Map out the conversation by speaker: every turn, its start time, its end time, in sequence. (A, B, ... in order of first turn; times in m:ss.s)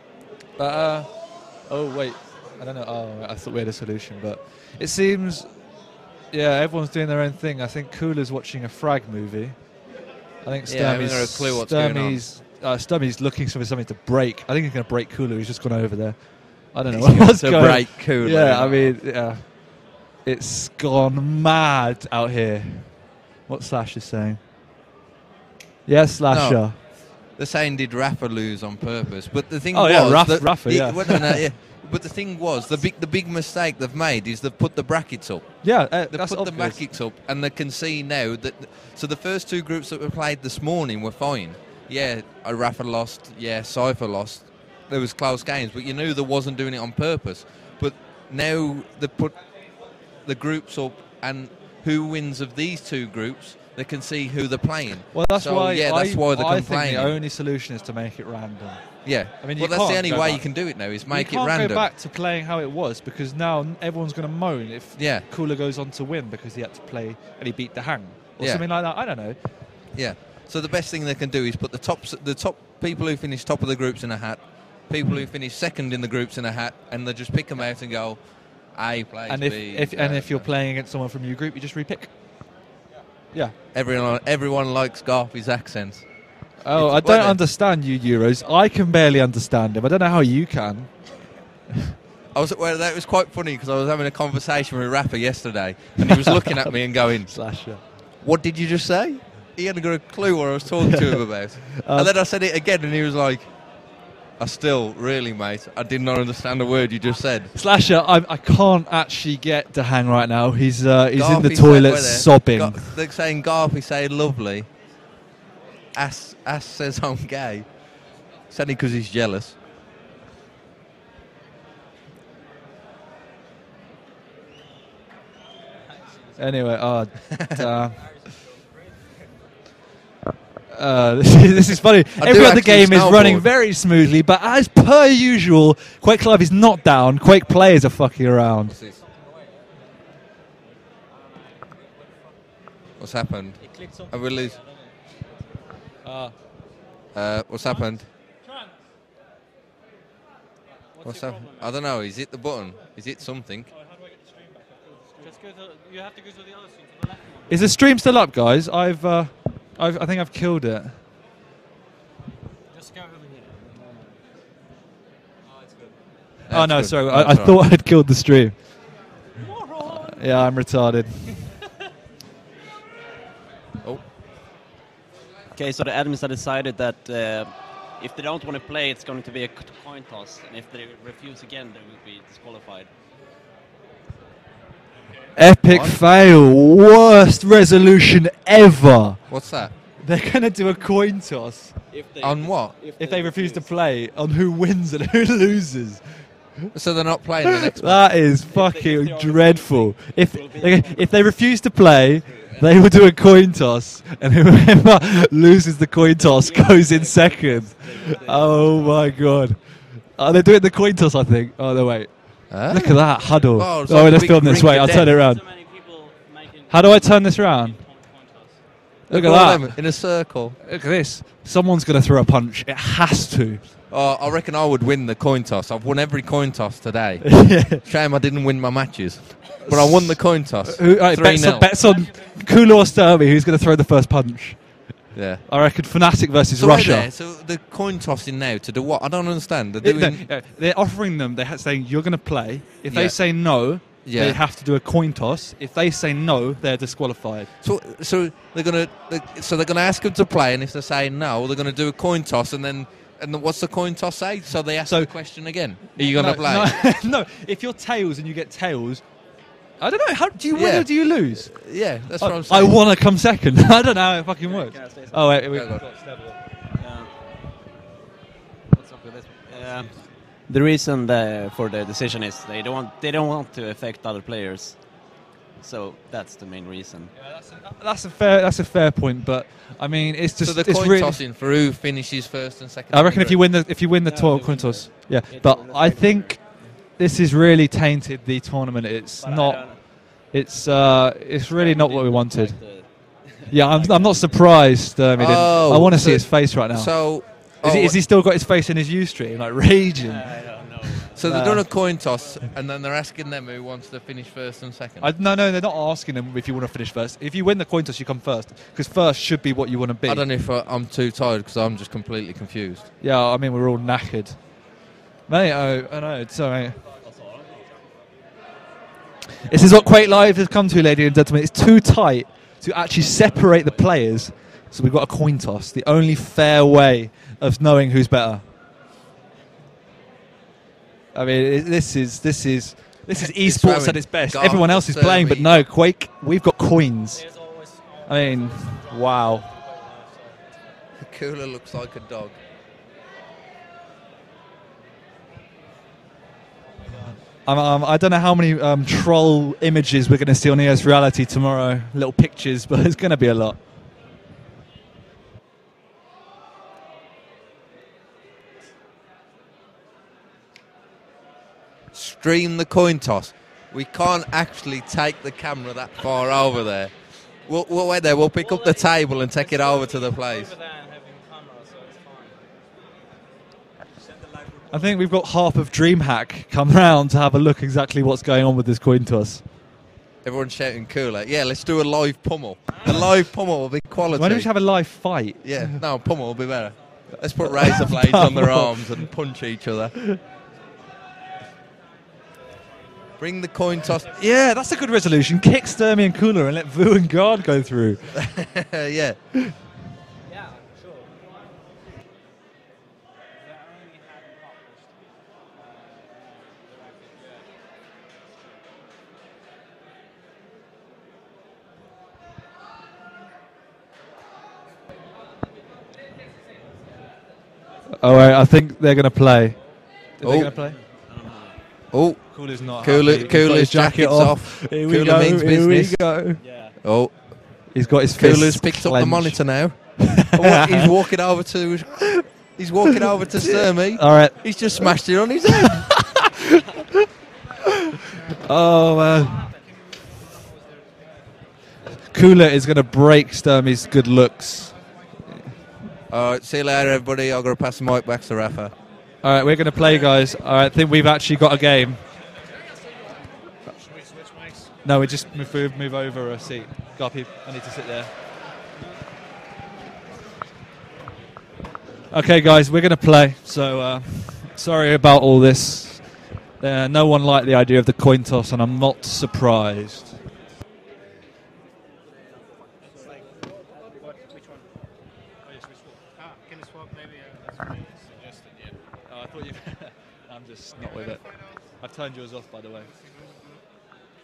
0:00.6-0:05.8 A
0:06.3-0:09.9 A
0:10.4-0:24.4 A
0:10.6-0:12.3 B
0:16.9-0:19.0 B
0:25.8-0:26.8 A
0:26.3-0:57.2 B
0:29.7-0:31.4 A
0:35.6-0:36.8 A
0:55.1-1:09.5 A
0:59.0-1:01.8 B
1:05.0-1:05.2 B
1:08.4-1:08.6 B
1:09.9-1:20.5 B
1:19.3-1:22.4 A
1:23.7-1:27.4 B
1:26.6-1:31.3 A
1:32.3-1:43.8 B
1:36.1-1:37.8 A
1:41.8-1:42.1 A
1:44.4-1:47.5 B
1:47.5-1:52.9 A
1:51.2-1:54.7 B
1:55.9-1:57.9 B
1:58.4-1:59.6 B
2:05.7-2:06.8 C
2:06.4-2:08.1 A
2:07.7-2:09.3 C
2:10.7-2:18.8 A
2:12.2-2:13.5 B
2:18.7-2:19.7 C
2:21.1-2:22.1 C
2:23.0-2:24.6 B
2:23.6-2:24.8 C
2:26.0-2:26.3 A
2:27.1-2:28.1 B
2:31.0-2:31.8 C
2:31.0-2:33.7 B
2:33.7-2:35.3 A
2:35.2-2:37.7 C
2:37.5-2:41.0 A
2:42.7-2:44.2 C
2:45.4-2:46.0 C
2:46.5-2:47.6 B
2:46.5-2:49.0 A
2:49.3-2:50.4 C
2:49.8-2:51.5 A
2:55.5-3:02.9 D
3:05.3-3:11.8 A
3:05.6-3:06.0 B
3:09.3-3:09.7 B
3:11.9-3:13.7 D
3:12.2-3:12.8 B
3:13.0-3:16.7 A
3:16.7-3:18.1 B
3:17.4-3:35.4 A
3:18.5-3:21.2 D
3:22.1-3:22.7 D
3:26.3-3:28.8 D
3:26.6-3:29.2 C
3:32.5-3:35.1 B
3:33.2-3:33.5 C
3:34.6-3:38.6 C
3:36.7-3:37.8 A
3:39.1-3:40.6 B
3:39.1-3:43.7 A
3:43.9-3:51.7 B
3:47.2-3:47.8 A
3:49.6-3:57.1 A
3:51.8-3:52.4 C
3:55.1-3:55.4 B
3:56.6-4:00.2 B
3:59.8-4:07.5 A
4:02.9-4:04.4 B
4:07.6-4:16.8 B
4:14.8-4:19.1 A
4:19.8-4:21.6 A
4:20.5-4:22.8 B
4:22.2-4:26.4 A
4:24.4-4:25.4 D
4:25.5-4:25.8 B
4:26.7-4:27.1 D
4:28.7-4:37.1 D
4:29.4-4:29.9 C
4:37.2-4:41.2 A
4:40.4-4:43.5 B
4:42.9-4:52.9 A
4:44.0-4:46.7 D
4:49.2-4:49.8 D
4:51.5-4:54.3 D
4:53.5-5:01.7 A
4:55.2-4:58.0 B
5:00.0-5:01.3 D
5:01.2-5:05.1 B
5:05.0-5:10.2 A
5:10.0-5:12.9 B
5:13.0-5:14.7 A
5:15.2-5:16.8 A
5:17.0-5:17.6 D
5:19.4-5:28.4 A
5:31.1-5:37.3 A
5:33.1-5:35.7 B
5:37.1-5:40.5 C
5:38.0-5:39.5 A
5:41.0-5:42.4 B
5:46.6-5:47.2 C
5:47.3-5:53.6 A
6:01.9-6:10.5 B
6:08.3-6:12.5 C
6:13.9-6:14.9 C
6:14.7-6:19.5 A
6:20.2-6:24.7 B
6:22.7-6:23.0 C
6:24.1-6:25.8 A
6:25.4-6:30.0 B
6:27.4-6:29.0 A
6:33.2-6:34.1 B
6:34.2-6:38.2 A
6:38.3-6:39.2 B
6:40.2-6:41.2 C
6:43.3-6:45.0 C
6:45.5-6:47.5 C
6:58.0-7:00.8 A
7:00.2-7:00.5 B
7:00.5-7:01.6 D
7:01.9-7:06.2 B
7:02.2-7:06.4 A
7:06.4-7:06.8 D
7:06.8-7:15.9 B
7:07.7-7:10.9 A
7:13.1-7:15.0 A
7:15.5-7:16.4 A
7:18.4-7:19.4 A
7:19.1-7:19.7 C
7:20.5-7:21.1 E
7:22.1-7:25.5 A
7:26.1-7:28.7 B
7:29.2-7:32.0 A
7:34.8-7:38.1 A
7:42.1-7:50.2 A
7:52.8-7:53.3 C
7:53.8-7:54.7 E
7:55.5-7:55.9 A
7:56.2-7:58.1 E
7:58.2-7:58.7 D
7:59.0-8:01.2 A
8:01.8-8:02.9 A
8:03.1-8:03.6 E